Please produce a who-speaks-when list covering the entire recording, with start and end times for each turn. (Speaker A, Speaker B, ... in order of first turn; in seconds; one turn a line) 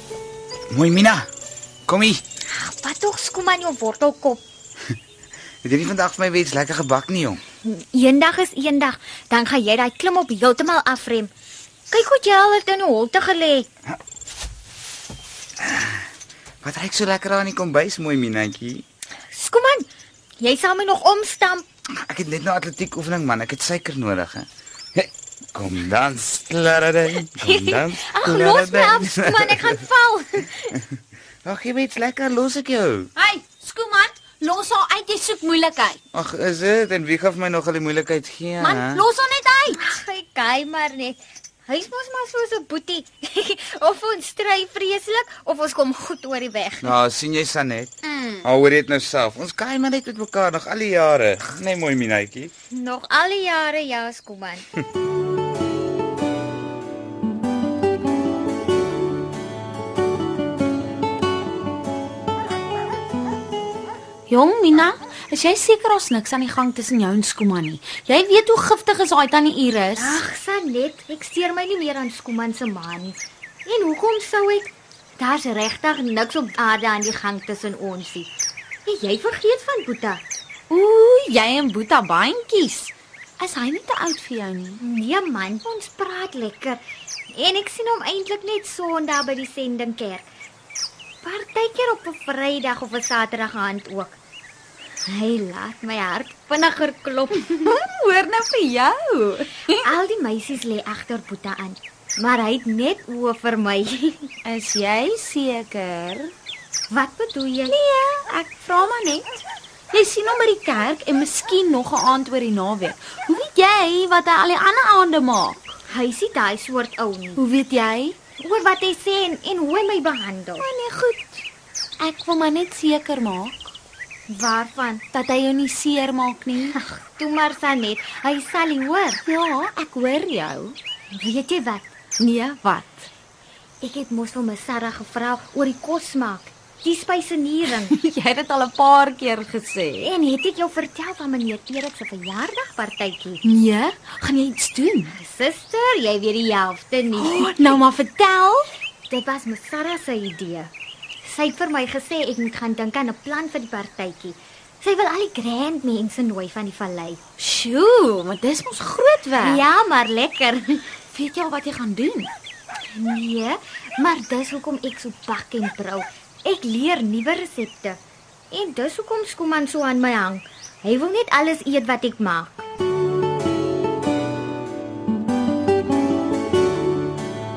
Speaker A: 0.7-1.3
Speaker A: 1.9-2.2
Speaker B: 2.5-4.4
Speaker A: 5.6-7.4
Speaker B: 7.6-11.3
Speaker B: 11.9-13.7
Speaker A: 15.6-15.9
Speaker A: 16.6-18.8
Speaker B: 19.3-19.9
Speaker B: 20.4-21.6
Speaker A: 22.1-29.7
Speaker B: 27.4-30.7
Speaker A: 31.4-33.1
Speaker C: 33.2-36.0
Speaker A: 36.1-39.0
Speaker C: 38.6-39.9
Speaker B: 39.7-47.0
Speaker A: 46.8-47.9
Speaker C: 48.0-48.5
Speaker A: 48.4-52.5
Speaker B: 52.7-54.6
Speaker C: 64.3-70.2
Speaker B: 70.0-78.3
Speaker B: 78.8-80.2
Speaker C: 80.7-84.8
Speaker B: 84.8-86.8
Speaker B: 87.3-90.2
Speaker B: 91.2-94.2
Speaker B: 95.0-97.5
Speaker C: 97.3-99.9
Speaker B: 99.8-104.3
Speaker C: 104.4-106.3
Speaker B: 106.9-107.7
Speaker C: 107.7-115.7
Speaker B: 115.9-117.4
Speaker C: 117.3-118.2
Speaker B: 118.4-120.6
Speaker C: 120.6-121.4
Speaker C: 122.0-123.7
Speaker B: 124.3-125.0
Speaker C: 125.1-126.8
Speaker B: 126.8-129.2
Speaker C: 129.2-130.8
Speaker B: 131.1-131.9
Speaker C: 132.2-133.1
Speaker B: 133.8-137.9
Speaker C: 137.7-140.1
Speaker B: 140.0-143.4
Speaker C: 143.4-145.1
Speaker B: 145.1-147.8
Speaker C: 147.1-148.7
Speaker B: 149.1-150.7
Speaker B: 151.2-157.2
Speaker C: 157.4-159.6
Speaker B: 159.4-160.9
Speaker C: 161.1-162.3
Speaker B: 162.9-168.0
Speaker B: 168.5-172.6